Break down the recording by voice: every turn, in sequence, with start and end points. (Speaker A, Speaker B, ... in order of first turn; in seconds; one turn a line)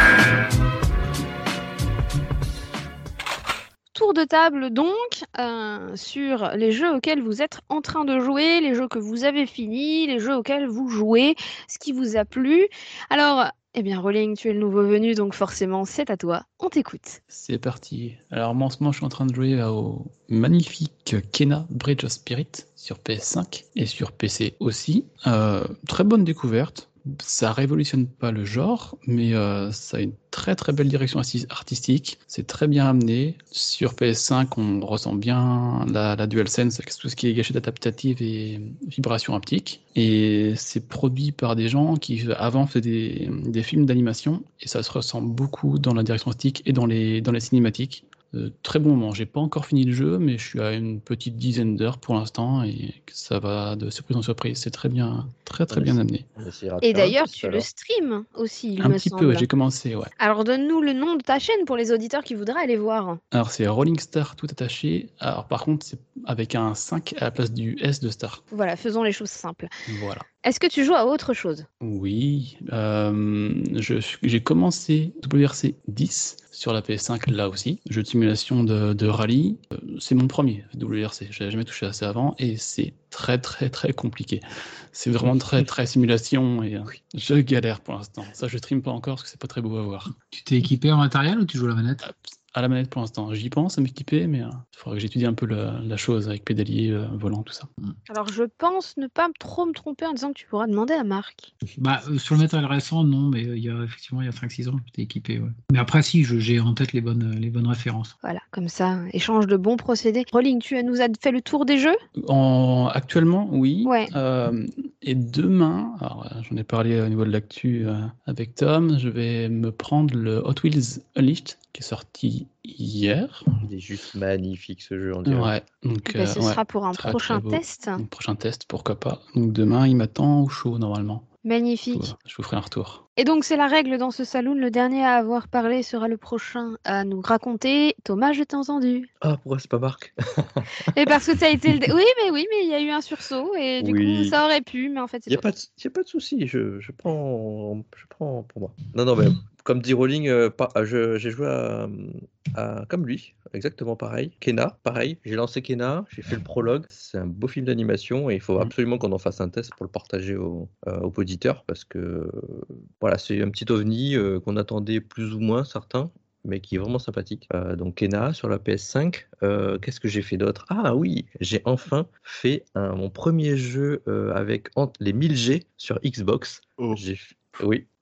Speaker A: 3.9-17.2
Speaker B: 17.3-56.3
Speaker C: 55.7-57.7
Speaker A: 56.8-59.5
Speaker B: 58.8-60.1
Speaker A: 60.2-63.2
Speaker B: 63.3-68.4
Speaker A: 68.5-69.7
Speaker B: 69.9-70.3
Speaker A: 70.4-71.7
Speaker B: 71.8-90.1
Speaker D: 90.3-92.1
Speaker B: 92.0-97.7
Speaker A: 98.1-101.5
Speaker D: 101.8-108.1
Speaker A: 108.2-112.0
Speaker B: 112.2-123.6
Speaker A: 113.8-114.1
Speaker C: 123.6-125.5
Speaker B: 125.2-131.3
Speaker A: 126.1-128.0
Speaker A: 131.4-132.1
Speaker B: 131.9-133.0
Speaker A: 133.2-139.1
Speaker C: 139.2-140.9
Speaker A: 140.9-145.5
Speaker C: 143.8-144.4
Speaker C: 145.3-177.9